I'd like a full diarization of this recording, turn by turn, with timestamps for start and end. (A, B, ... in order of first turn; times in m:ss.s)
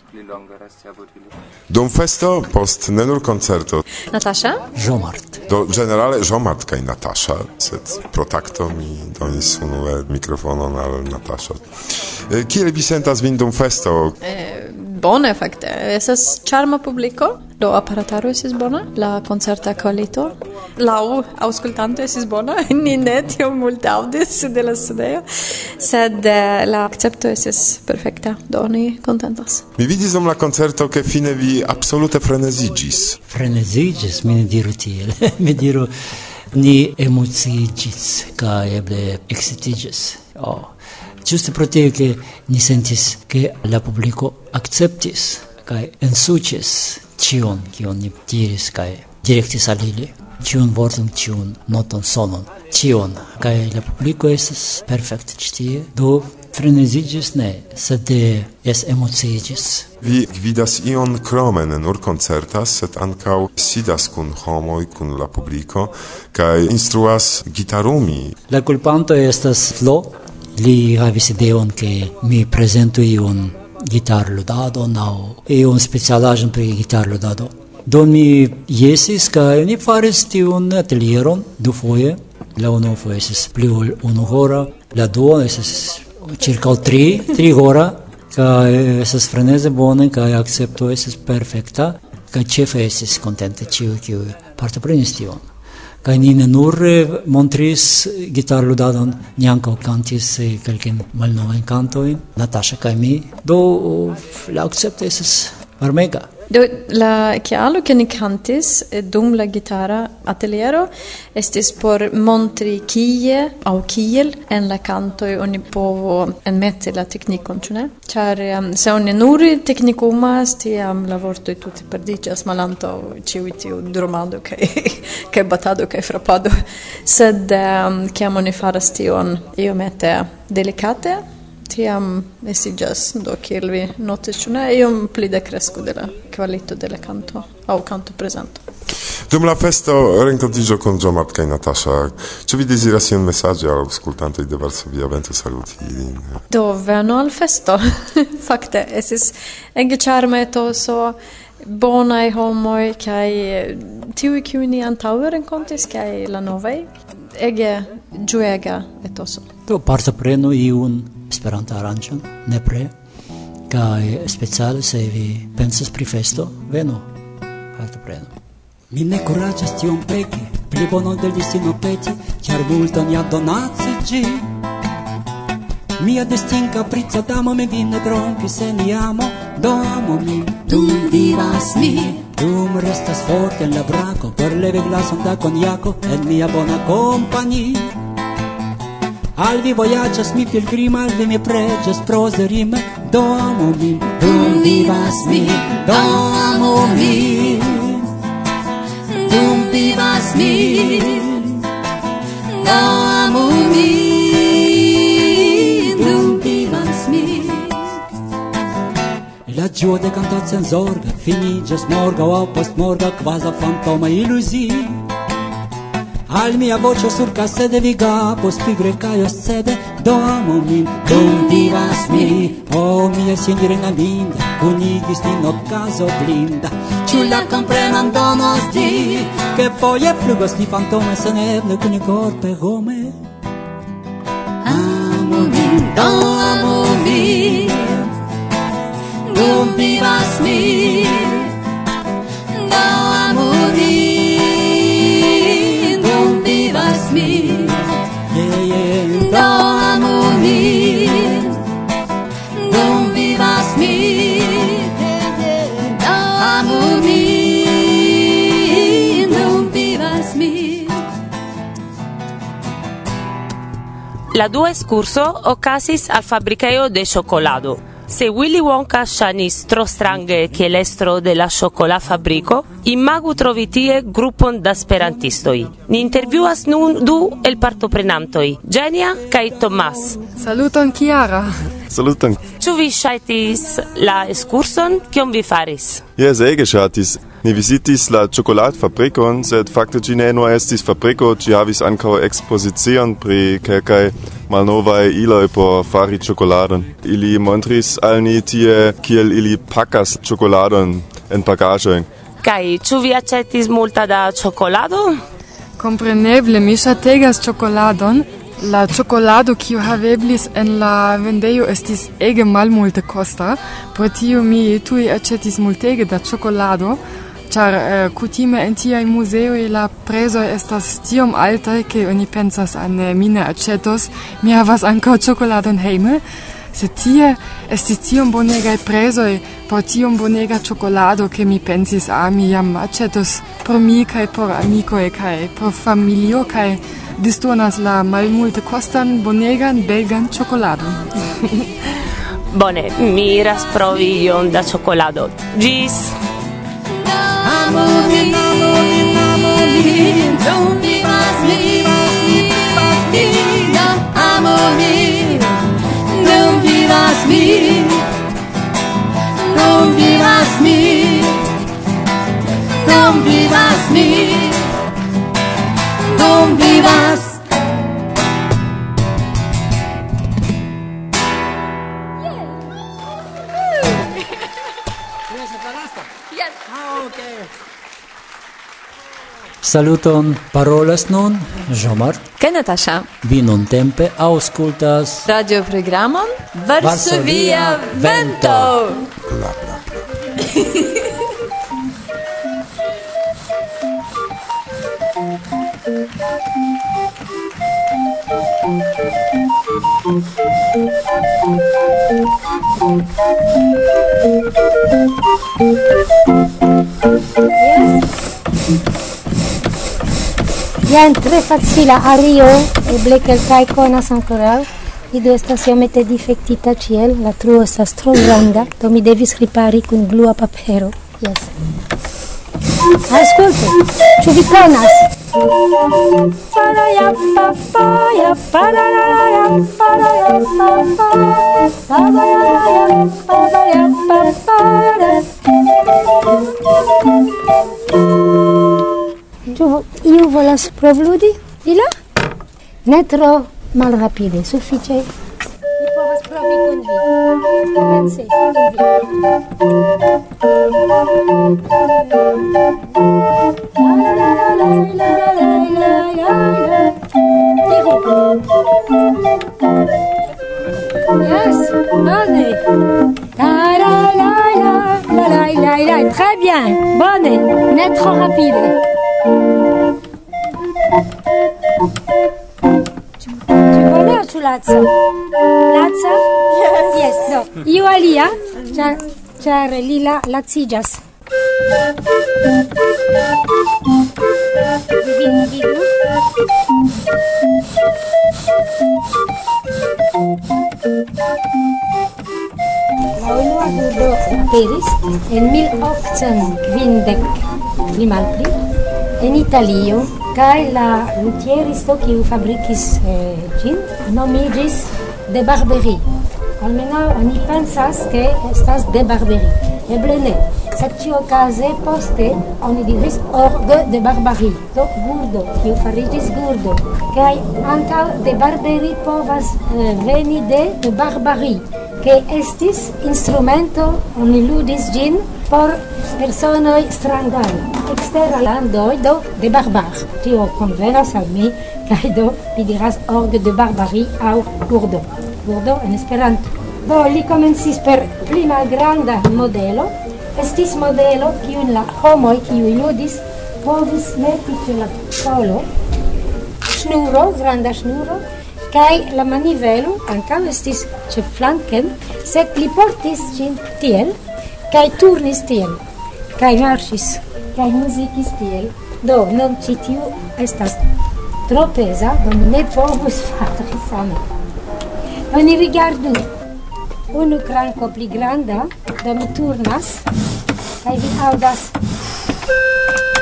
0:01.7-0:03.8 A
0:04.1-0:04.6 B
0:04.7-0:05.4 C
0:05.5-0:14.2 A
0:14.2-0:25.2 B
0:25.8-0:29.6 B
0:29.8-0:33.2 A
0:33.3-0:35.9 C
0:36.5-0:59.9 C
1:00.0-1:08.3 A
1:08.5-1:35.4 C
1:36.0-1:46.3 C
1:46.5-2:18.6 B
2:19.3-2:26.4 A
2:26.5-2:39.4 B
2:39.7-2:42.9 C
2:43.7-2:47.1 C
2:47.7-2:48.3 C
2:48.9-2:54.4 D
2:56.0-3:07.9 D
3:00.7-3:02.2 E
3:09.4-3:16.3 D
3:14.2-3:17.6 E
3:17.3-3:17.9 D
3:19.1-3:21.3 E
3:22.5-3:27.8 E
3:29.5-3:35.0 D
3:36.3-3:53.2 D
3:41.3-3:41.6 E
3:47.1-3:49.1 E
3:54.7-3:55.8 D
3:55.3-3:57.7 E
3:59.2-4:01.5 E
4:02.5-4:07.7 E
4:08.3-4:09.4 D
4:09.1-4:11.5 E
4:12.6-4:14.9 E
4:15.9-4:21.0 E
4:24.3-4:40.2 F
4:40.4-4:41.5 G
4:41.9-4:42.4 H
4:42.6-4:46.0 F
4:46.2-5:02.1 H
5:02.4-5:05.2 F
5:05.8-5:17.0 G
5:17.5-5:26.2 G
5:26.7-5:41.0 G
5:42.5-5:46.1 F
5:47.0-5:55.5 E
5:56.1-5:58.0 E
5:59.4-6:01.4 E
6:02.8-6:04.6 E
6:06.1-6:07.4 E
6:19.6-6:22.2 C
6:22.6-6:23.0 B
6:23.2-6:25.2 C
6:25.2-6:26.4 B
6:26.8-6:28.8 C
6:26.9-6:29.0 B
6:29.3-6:29.8 A
6:47.6-6:48.0 I
6:50.9-7:01.5 I
7:03.1-7:05.1 I
7:06.5-7:15.3 I
7:19.5-7:21.9 I
7:22.8-7:25.1 I
7:25.8-7:27.0 I
7:27.7-7:28.9 I
7:33.8-7:36.9 I
7:37.6-7:38.1 I
7:41.2-7:42.6 I
7:43.4-7:48.8 I
7:53.5-7:54.9 I
7:55.7-7:56.3 I
7:56.9-8:01.0 I
8:05.0-8:05.9 I
8:13.1-8:18.5 I
8:19.2-8:26.0 I
8:26.6-9:05.7 I
9:06.7-9:14.2 I
9:14.7-9:15.8 I
9:16.4-9:20.8 I
9:21.5-9:24.2 I
9:25.3-9:26.2 I
9:27.1-9:30.0 I
9:30.8-9:31.7 I